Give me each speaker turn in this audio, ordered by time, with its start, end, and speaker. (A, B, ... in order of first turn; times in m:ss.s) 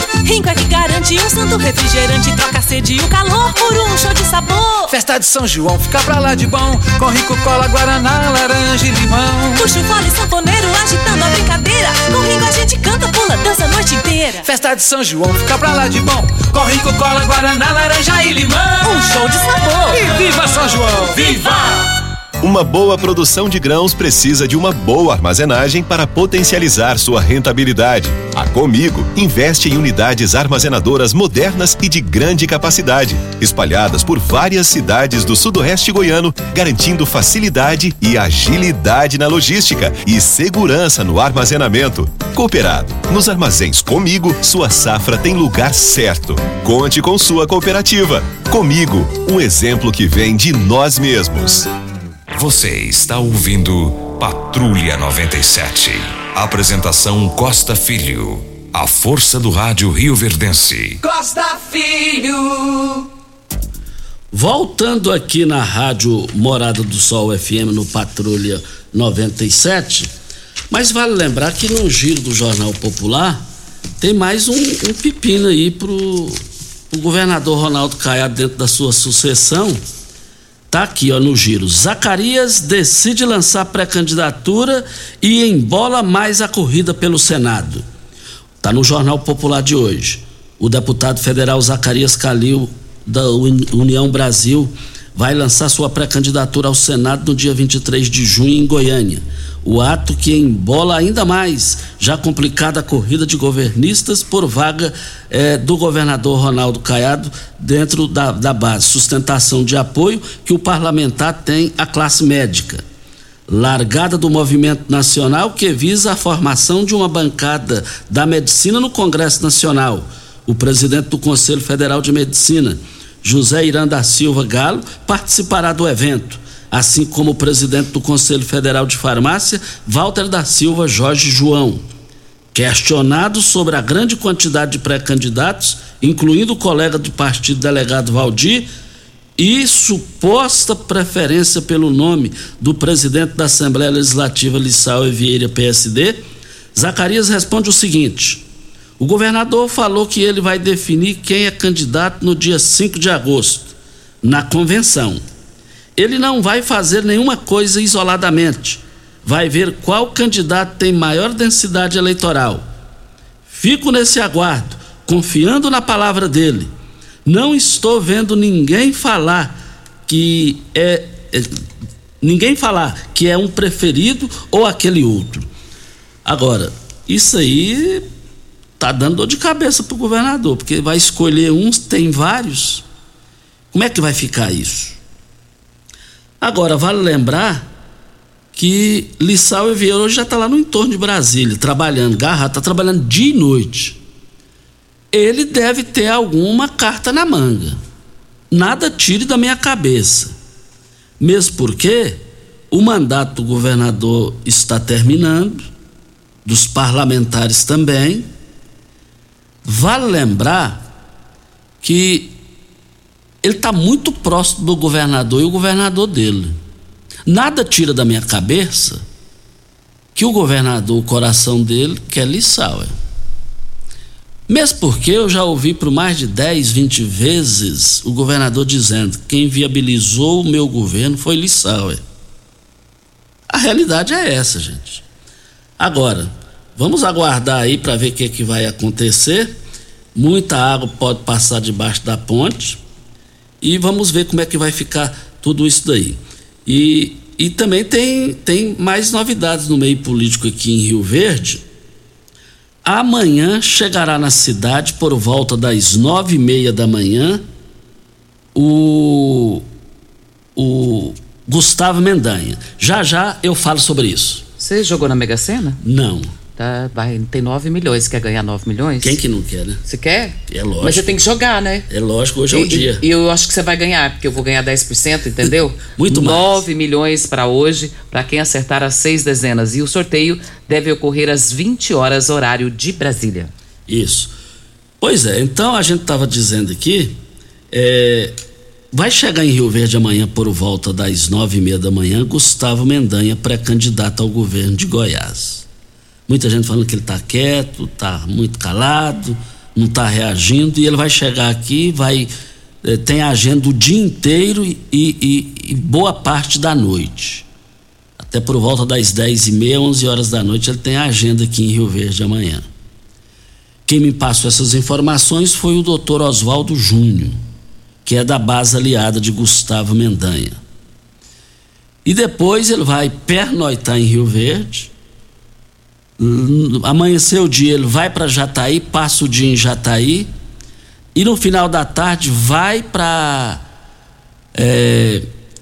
0:00.2-0:04.9 A
0:04.9-0:09.6 B
0:09.6-0:14.4 A
0:14.4-0:19.3 B
0:18.9-0:20.0 A
0:19.9-0:21.6 B
0:22.4-0:51.6 C
0:52.3-1:01.0 D
1:01.0-1:03.0 B
1:04.3-1:10.1 E
1:10.7-1:13.4 E
1:14.0-1:16.4 E
1:16.9-1:19.8 E
1:20.7-1:27.8 E
1:28.6-1:52.8 E
1:53.5-2:11.8 E
2:12.5-2:18.7 E
2:19.4-2:26.2 E
2:26.8-2:28.4 E
2:29.0-2:35.2 E
2:36.0-2:42.6 E
2:43.5-2:46.7 E
2:47.2-2:51.5 E
2:52.2-2:55.5 E
2:56.2-2:58.0 E
2:58.8-3:02.8 E
3:03.7-3:05.0 E
3:06.4-3:07.7 E
3:08.5-3:14.0 E
3:15.1-3:17.8 E
3:18.5-3:20.3 E
3:21.2-3:25.6 E
3:26.4-3:28.3 E
3:29.6-3:30.8 E
3:31.8-3:32.3 E
3:33.4-3:36.6 E
3:37.3-3:39.0 E
3:40.1-3:42.9 E
3:44.5-3:52.0 E
3:53.5-3:55.0 E
3:55.8-3:59.5 E
4:00.2-4:02.8 E
4:03.6-4:11.6 E
4:12.8-4:17.4 E
4:18.5-4:19.6 E
4:20.6-4:24.4 E
4:24.6-4:25.8 F
4:25.8-4:26.3 E
4:26.6-4:29.2 F
4:29.0-4:29.8 E
4:29.8-4:31.8 F
4:30.5-4:31.2 E
4:31.9-4:33.0 E
4:32.5-4:43.5 F
4:36.0-4:36.6 E
4:43.9-4:44.3 E
4:45.0-4:47.2 E
4:47.7-4:48.4 E
4:48.9-4:55.7 E
4:56.3-5:02.3 E
5:02.8-5:07.4 E
5:08.2-5:12.6 E
5:13.9-5:17.4 E
5:18.0-5:20.6 E
5:22.0-5:24.9 E
5:26.2-5:30.3 E
5:31.1-5:33.6 E
5:34.5-5:35.3 E